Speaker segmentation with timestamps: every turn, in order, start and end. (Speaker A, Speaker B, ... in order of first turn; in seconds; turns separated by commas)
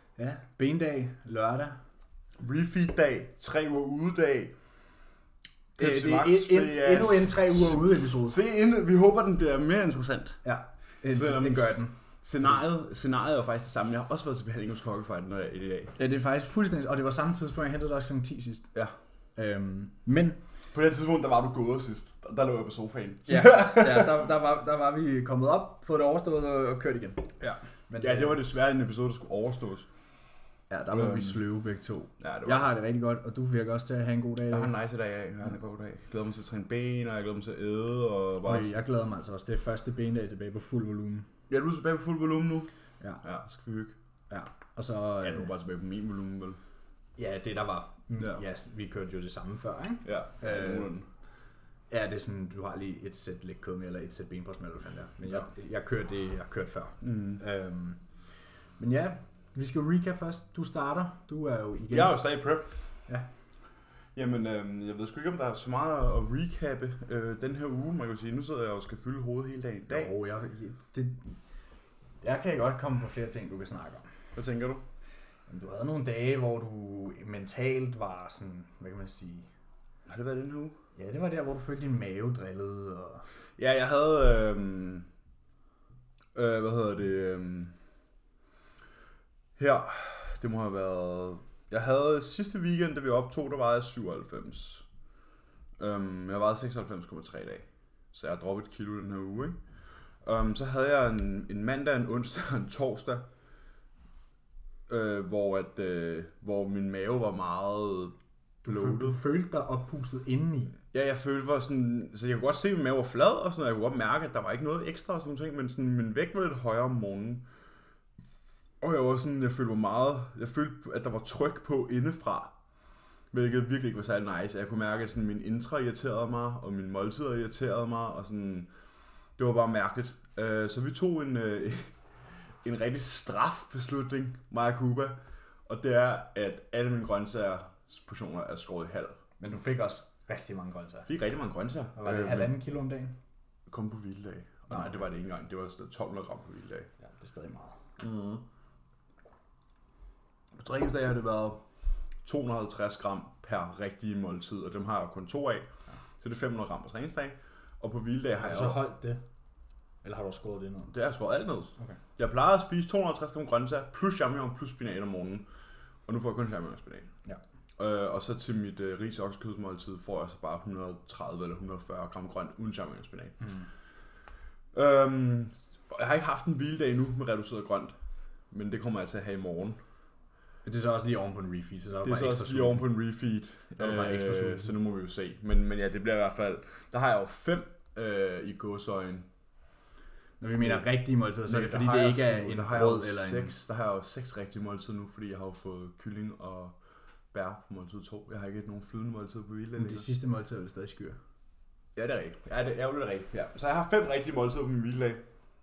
Speaker A: 0.2-1.8, Speaker B: 2.4-4.5, Speaker A: 5.8-8.4, Speaker B: 5.8-10.4, Speaker A: 10.4-11.9, Speaker B: 11.1-15.9, Speaker A: 16.0-18.7, Speaker A: 19.4-20.4, Speaker B: 20.7-24.2, Speaker A: 23.3-27.3, Speaker B: 27.4-29.9, Speaker A: 27.9-28.4, Speaker A: 30.7-34.7, Speaker B: 30.9-31.4, Speaker B: 32.2-32.7, Speaker B: 34.5-38.7, Speaker A: 38.4-41.3, Speaker B: 41.5-42.7, Speaker B: 43.2-44.0, Speaker A: 44.3-45.5, Speaker B: 45.2-46.6, Speaker A: 47.2-50.9, Speaker B: 50.0-51.1, Speaker A: 51.9-58.0, Speaker B: 57.0-57.4, Speaker A: 58.8-62.2, Speaker B: 61.9-62.7, Speaker B: 64.1-70.1, Speaker A: 69.9-71.4, Speaker A: 72.2-74.1, Speaker B: 74.3-74.8, Speaker A: 75.5-79.5, Speaker B: 80.1-80.8, Speaker A: 81.0-83.2, Speaker B: 83.6-85.1, Speaker B: 86.3-87.7, Speaker B: 89.6-94.8, Speaker B: 95.8-99.6, Speaker B: 100.2-103.2, Speaker B: 104.9-108.1, Speaker A: 108.6-110.8, Speaker B: 108.7-109.2, Speaker B: 110.9-117.4, Speaker B: 118.8-122.5, Speaker B: 123.3-128.7, Speaker B: 129.4-131.9, Speaker B: 132.6-135.2, Speaker B: 135.7-139.2, Speaker A: 139.4-141.1, Speaker B: 141.1-142.6, Speaker A: 142.0-143.1, Speaker B: 143.7-146.9, Speaker A: 144.7-145.0, Speaker A: 147.0-147.8, Speaker B: 148.0-148.4, Speaker B: 150.6-151.6, Speaker B: 152.2-155.7, Speaker B: 156.2-158.8, Speaker A: 158.3-159.2, Speaker A: 160.0-160.9, Speaker B: 160.9-165.4, Speaker B: 166.1-167.1, Speaker B: 167.8-173.3, Speaker A: 173.4-173.7, Speaker B: 174.7-177.9, Speaker B: 178.5-179.8, Speaker A: 180.6-182.9, Speaker B: 182.0-189.3, Speaker A: 183.8-184.7, Speaker A: 190.4-193.5, Speaker B: 191.4-196.8, Speaker B: 197.3-200.1, Speaker A: 199.8-201.2, Speaker B: 201.9-205.2